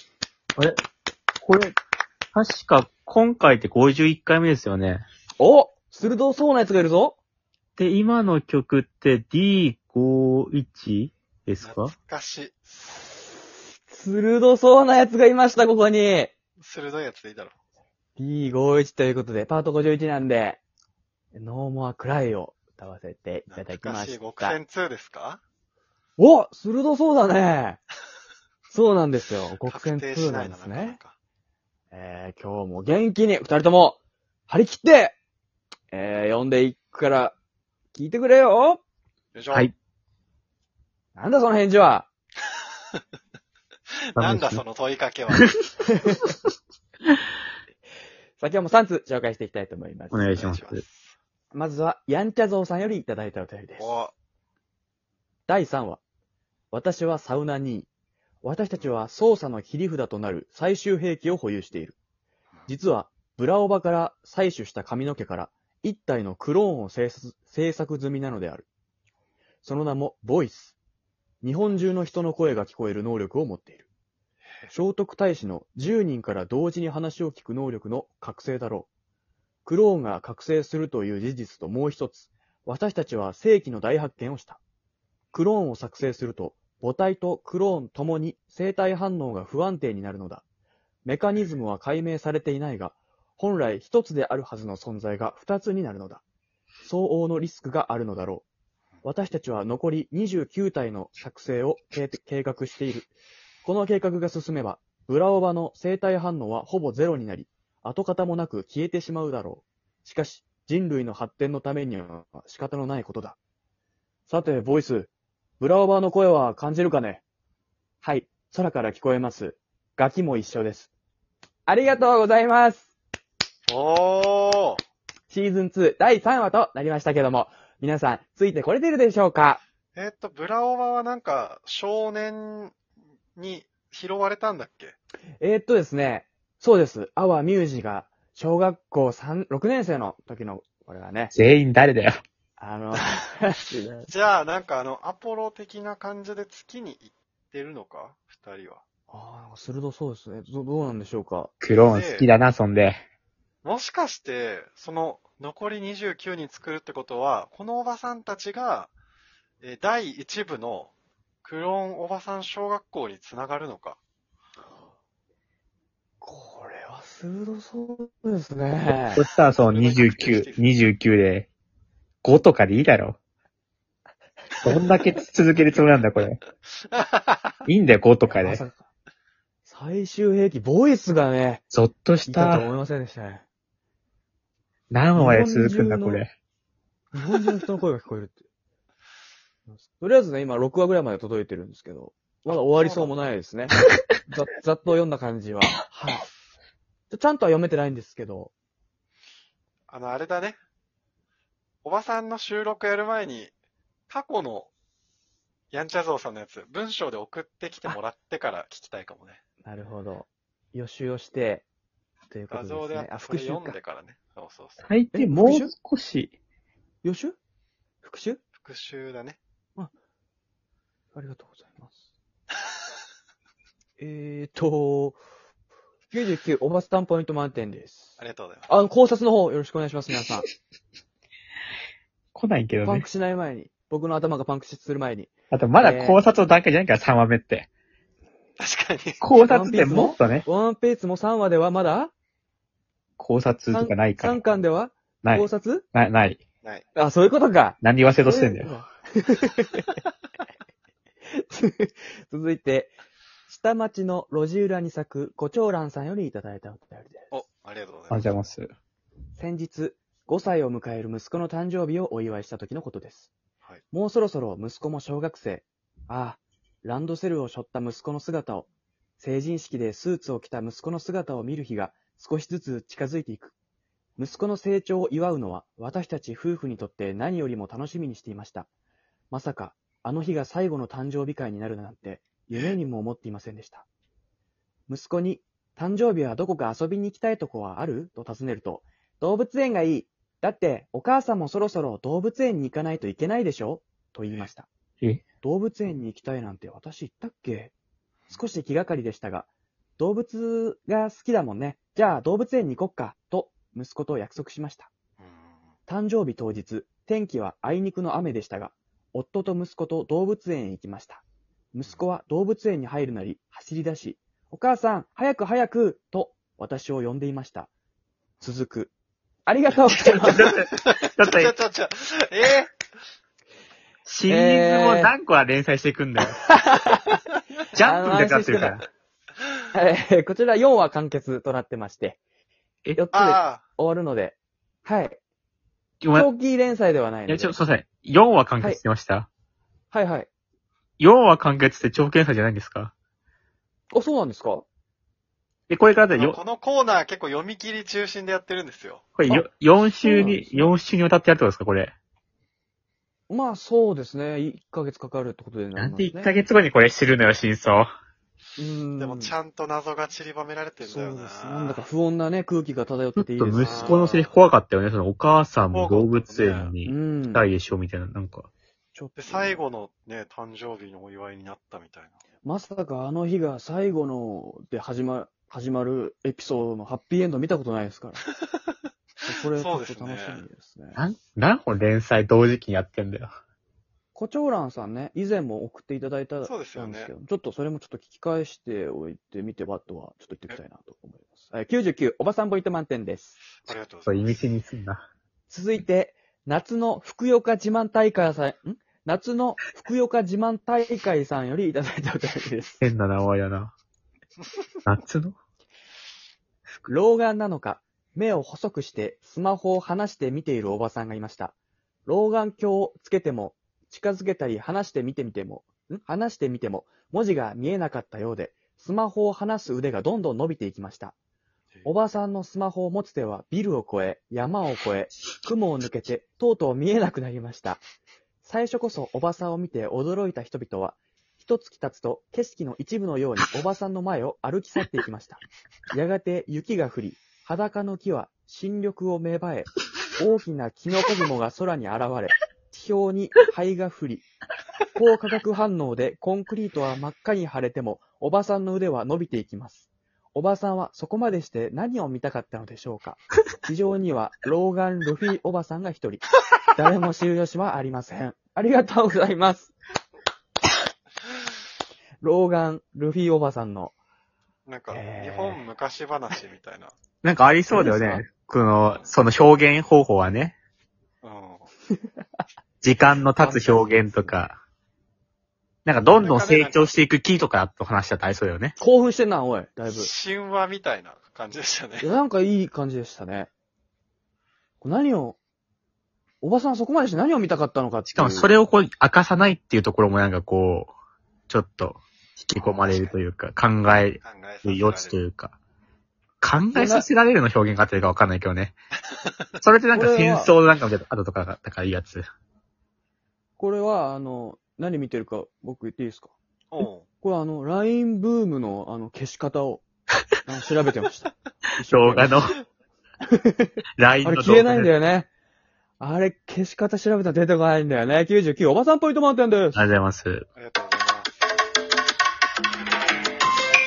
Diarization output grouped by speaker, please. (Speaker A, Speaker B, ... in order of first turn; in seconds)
Speaker A: 1.4-1.7, 2.3-5.0, 7.8-11.9, 44.2-44.6, 50.1-50.8, 141.3-142.2, 151.6-153.0, 169.2-171.5, 172.2-173.2, 174.6-176.4, 177.7-178.6, 181.7-182.6, 184.9-186.3, 214.8-216.3, 232.3-233.1, 235.5-237.7, 239.2-240.4, 243.2-244.4, 245.2-246.4, 247.8-248.7, 258.1-258.7, 320.3-321.5, 324.1-326.4, 327.7-328.8, 336.0-336.3, 337.3-339.3, 341.0-342.9, 345.7-346.4, 349.1-351.9, 355.8-357.9, 363.2-368.5, 380.9-383.4, 394.1-395.1, 402.8-403.7, 404.9-405.4, 467.2-470.6, 472.8-474.6, 475.9-478.8, 488.1-490.9, 491.5-495.5, 496.4-498.7, 499.6-502.2, 511.9-512.5, 514.0-514.9, 519.8-520.4
Speaker B: 5.4-7.2, 13.9-16.3, 18.2-20.6, 21.3-24.6, 26.2-27.8, 28.7-31.0, 31.9-35.2, 35.9-37.4, 37.9-38.8, 41.1-42.1, 46.0-46.2, 48.4-50.4, 51.5-54.0, 55.5-56.0, 56.7-57.9, 58.4-62.0, 62.7-68.7, 69.6-70.8, 71.4-73.9, 74.7-78.9, 79.6-84.6, 85.3-90.4, 91.0-96.2, 96.8-98.4, 99.0-103.1, 103.6-113.4, 114.3-117.2, 118.0-120.9, 121.7-122.9, 125.3-129.6, 135.4-141.3, 142.6-144.1, 149.1-151.5, 166.2-169.2, 178.2-178.8, 179.7-181.6, 182.3-183.4, 185.1-186.2, 187.1-188.4, 189.7-193.8, 194.3-196.3, 197.1-198.5, 209.6-211.7, 212.3-213.8, 215.1-215.7, 217.0-217.4, 218.0-218.4, 221.1-222.0, 224.0-225.2, 226.1-228.2, 228.7-230.5, 232.8-236.2, 239.4-242.1, 243.7-245.8, 246.9-250.0, 251.3-252.9, 253.5-257.3, 259.4-263.3, 263.9-268.7, 269.2-273.5, 274.2-278.7, 279.3-283.9, 284.9-294.7, 295.4-297.7, 298.3-304.9, 305.9-317.7, 318.4-318.9, 319.5-320.6, 324.2-325.1, 326.4-327.2, 327.8-328.8, 329.7-332.2, 332.9-335.2, 336.1-337.6, 339.9-340.3, 343.9-344.6, 350.0-350.8, 353.3-356.3, 358.6-359.3, 360.8-364.1, 366.9-367.5, 368.9-369.6, 372.4-378.2, 379.2-381.0, 384.1-393.4, 395.5-402.9, 406.9-411.6, 412.1-421.1, 421.9-427.8, 428.4-444.2, 444.9-459.7, 462.2-463.9, 464.9-465.6, 467.7-468.2, 473.4-474.4, 478.8-480.1, 482.0-483.5, 484.8-485.4, 486.4-488.5, 496.7-497.1, 499.9-500.5, 503.6-506.3, 507.2-509.8, 510.4-512.4, 513.3-513.7, 514.2-515.3, 516.0-519.8
Speaker C: 11.6-12.6, 16.6-17.5, 23.5-25.4, 29.6-31.1, 39.3-39.7, 44.1-45.5, 50.3-51.1, 53.8-54.1, 123.7-124.8, 130.0-132.8, 133.4-134.9, 144.1-148.8, 151.8-152.3, 153.6-158.9, 159.6-160.9, 161.4-164.0, 169.6-170.7, 176.9-177.6, 192.5-193.3, 199.9-200.6, 201.8-203.5, 204.1-204.7, 205.7-209.4, 212.5-214.8, 218.6-219.4, 228.2-228.7, 238.6-239.2, 257.3-258.3, 305.2-305.6, 320.7-322.7, 333.1-333.6, 346.1-349.0, 359.0-361.9, 363.6-364.4, 365.7-366.7, 369.2-372.2, 379.5-380.4, 386.4-387.1, 393.6-394.4, 464.7-466.9, 471.2-471.7, 476.0-476.9, 479.9-482.1, 492.6-493.2, 494.2-495.2, 506.7-507.1, 520.5-521.4